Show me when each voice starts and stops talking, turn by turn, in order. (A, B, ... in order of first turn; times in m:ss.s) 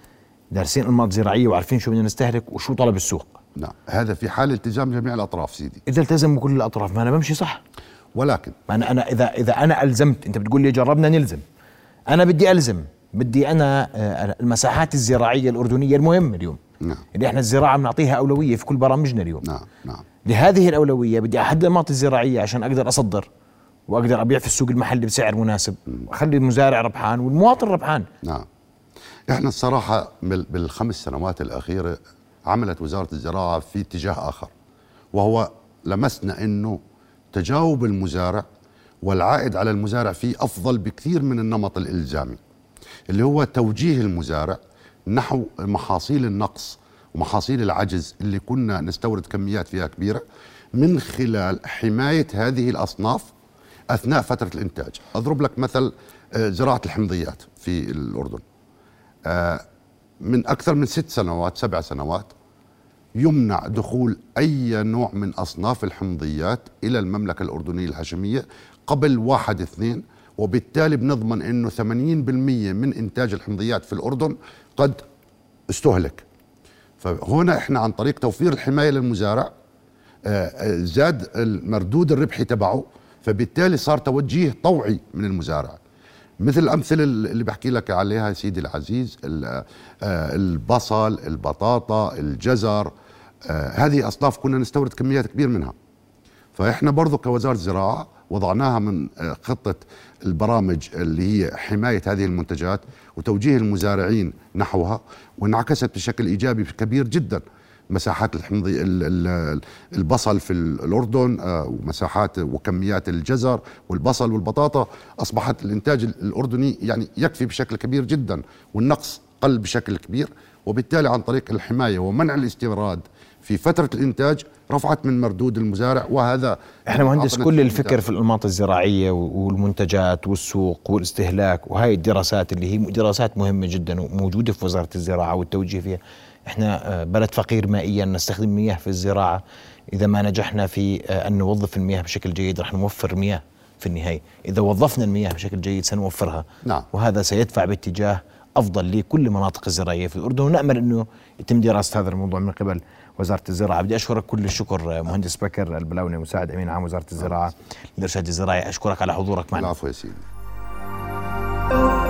0:00.5-0:03.4 A
0:03.6-0:05.8 B
0:05.9-0:07.6 A
0:08.2-0:08.6 B
0:08.7-0:11.4 A
0:12.1-0:16.6 A
0:17.2-0:19.5 A
0:19.4-0:20.0 B
0:20.2-0:23.3 A
0:23.9-0:28.1 A
0:29.3-0:34.5 B
0:35.1-0:36.8 B
0:37.3-0:38.4 B
0:39.0-0:42.4 B
0:43.1-0:44.6 B
0:45.1-0:50.2 B
0:50.8-0:53.3 B
0:53.9-0:58.4 B
0:59.3-0:59.6 B
1:00.2-1:02.3 B
1:03.2-1:15.0 B
1:15.7-1:16.2 B
1:17.0-1:19.5 B
1:20.2-1:25.8 B
1:26.4-1:32.9 B
1:33.5-1:35.7 B
1:36.6-2:08.0 B
2:06.9-2:19.4 A
2:19.9-2:39.7 A
2:39.5-2:40.2 B